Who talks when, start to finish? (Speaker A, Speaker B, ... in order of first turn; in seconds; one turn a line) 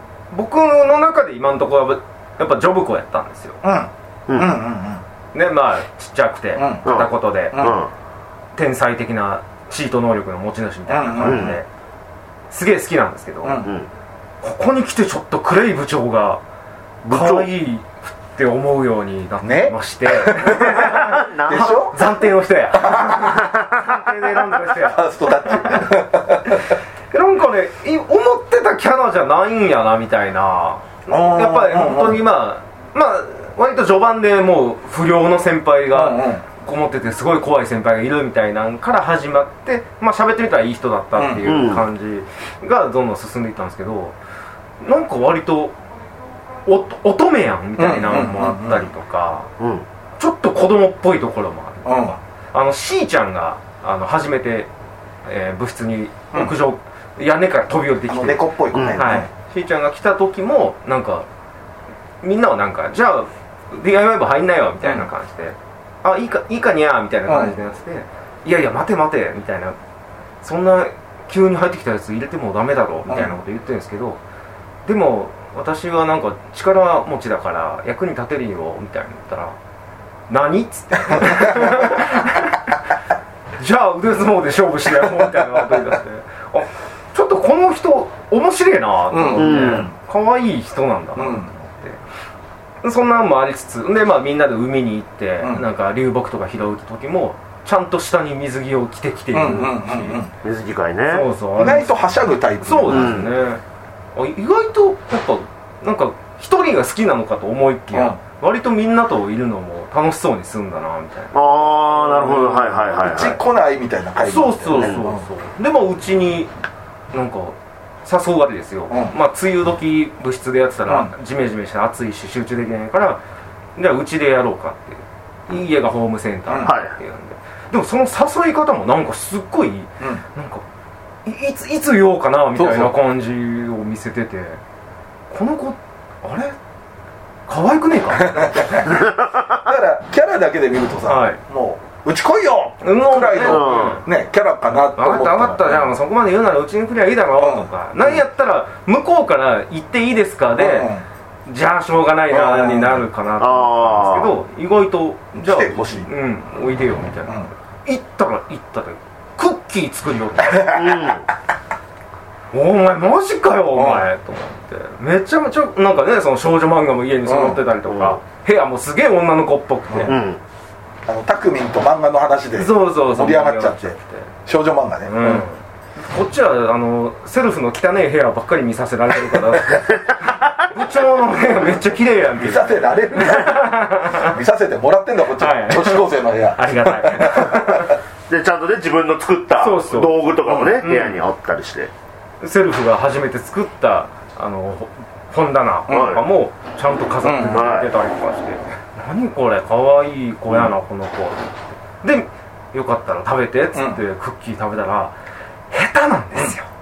Speaker A: 0.3-3.6
Speaker B: 3.6-5.0
Speaker C: 4.3-4.6
Speaker A: 5.3-7.7
Speaker B: 6.6-6.9
Speaker C: 6.9-7.9
Speaker B: 7.5-7.8
Speaker A: 8.6-11.7
Speaker B: 10.9-11.6
Speaker C: 11.2-11.6
Speaker A: 12.5-13.6
Speaker B: 13.4-13.7
Speaker C: 13.6-13.9
Speaker A: 14.4-16.4
Speaker C: 17.1-17.5
Speaker A: 17.1-25.9
Speaker B: 19.4-22.0
Speaker C: 20.5-21.8
Speaker B: 22.7-23.4
Speaker C: 23.2-24.4
Speaker B: 24.7-26.6
Speaker A: 27.1-44.2
Speaker B: 31.1-32.2
Speaker B: 35.9-36.4
Speaker B: 41.2-41.5
Speaker C: 41.4-41.8
Speaker A: 44.8-45.7
Speaker A: 46.6-49.5
Speaker B: 47.8-48.9
Speaker C: 49.6-49.9
Speaker A: 50.2-54.7
Speaker B: 51.9-52.2
Speaker A: 55.2-61.3
Speaker B: 58.1-59.3
Speaker C: 58.7-59.0
Speaker A: 62.2-69.8
Speaker B: 67.3-67.6
Speaker A: 70.4-74.2
Speaker B: 73.1-73.4
Speaker A: 74.9-79.6
Speaker A: 80.3-82.6
Speaker B: 81.1-82.0
Speaker A: 83.6-92.0
Speaker B: 89.1-89.9
Speaker C: 89.3-89.9
Speaker B: 91.2-91.5
Speaker A: 92.8-100.2
Speaker B: 99.3-100.3
Speaker C: 100.4-101.3
Speaker A: 101.1-101.9
Speaker B: 101.6-103.2
Speaker A: 102.6-103.6
Speaker C: 102.9-103.3
Speaker A: 104.2-113.3
Speaker B: 107.9-108.2
Speaker C: 111.3-113.4
Speaker B: 113.0-115.2
Speaker A: 114.2-116.5
Speaker C: 114.7-115.0
Speaker A: 117.1-123.2
Speaker B: 118.9-119.2
Speaker A: 123.8-130.6
Speaker B: 126.5-126.7
Speaker C: 126.6-127.0
Speaker A: 131.3-134.6
Speaker B: 132.6-132.9
Speaker A: 135.3-136.6
Speaker A: 137.5-139.0
Speaker B: 138.2-145.9
Speaker C: 139.0-139.3
Speaker A: 141.1-141.4
Speaker A: 142.8-144.1
Speaker C: 143.4-144.0
Speaker A: 144.9-150.9
Speaker B: 147.4-147.7
Speaker B: 150.6-151.1
Speaker A: 151.5-160.8
Speaker B: 152.3-153.0
Speaker C: 153.4-154.3
Speaker B: 155.3-156.1
Speaker B: 160.5-161.2
Speaker C: 160.7-161.3
Speaker A: 162.5-170.2
Speaker B: 163.7-164.0
Speaker B: 167.3-167.6
Speaker C: 167.9-168.2
Speaker C: 170.1-170.4
Speaker B: 171.1-175.4
Speaker A: 172.6-174.3
Speaker A: 175.1-184.4
Speaker B: 182.4-187.9
Speaker A: 185.4-188.0
Speaker C: 188.3-191.9
Speaker A: 189.6-191.2
Speaker B: 190.5-190.8
Speaker A: 192.4-205.1
Speaker B: 195.9-196.2
Speaker C: 195.9-196.2
Speaker B: 197.2-197.7
Speaker C: 197.5-197.9
Speaker B: 203.7-204.0
Speaker A: 205.7-206.7